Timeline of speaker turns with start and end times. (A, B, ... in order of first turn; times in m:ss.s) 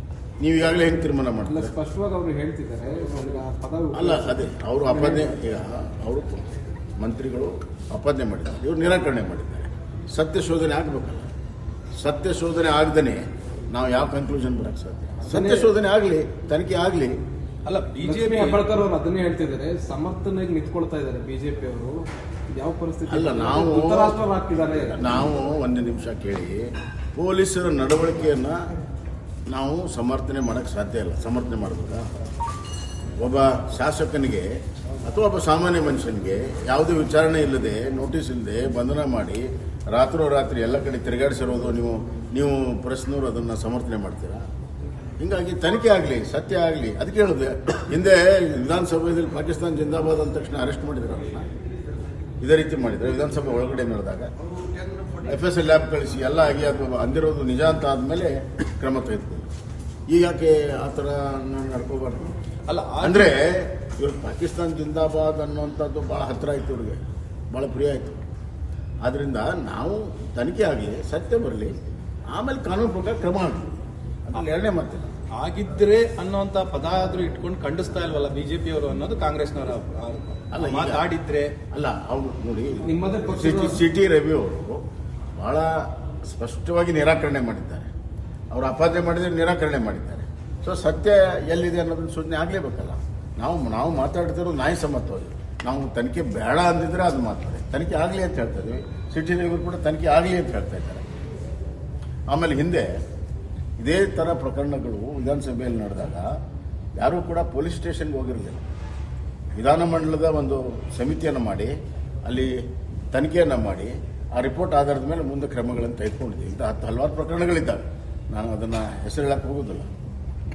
0:00.4-0:01.8 A
0:01.5-0:05.4 B
0:03.9-0:11.3 A
0:12.0-0:17.2 A
0:15.3-0:15.7 B
0:17.6-0:18.6 C
0:18.0-0:25.1 B
0:23.1-0:24.2 A
0:24.7-0:28.6 A
0:29.5-0:32.1 A
0:33.2-0:44.5 A
0:45.2-0:51.5 A
0:52.4-0:54.3 A
0:55.2-0:59.5 A
1:00.1-1:02.3 A
1:02.7-1:03.4 C
1:03.0-1:07.0 A
1:07.5-1:08.2 A
1:09.0-1:11.8 A
1:12.3-1:15.2 A
1:15.3-1:21.6 C
1:20.5-1:21.0 A
1:21.7-1:24.8 A
1:22.8-1:23.8 B
1:25.4-1:27.9 A
1:28.5-1:41.0 A
1:42.3-1:42.9 A
1:43.8-1:46.3 A
1:47.0-1:48.7 A
1:49.6-1:51.7 A
1:52.2-1:59.9 A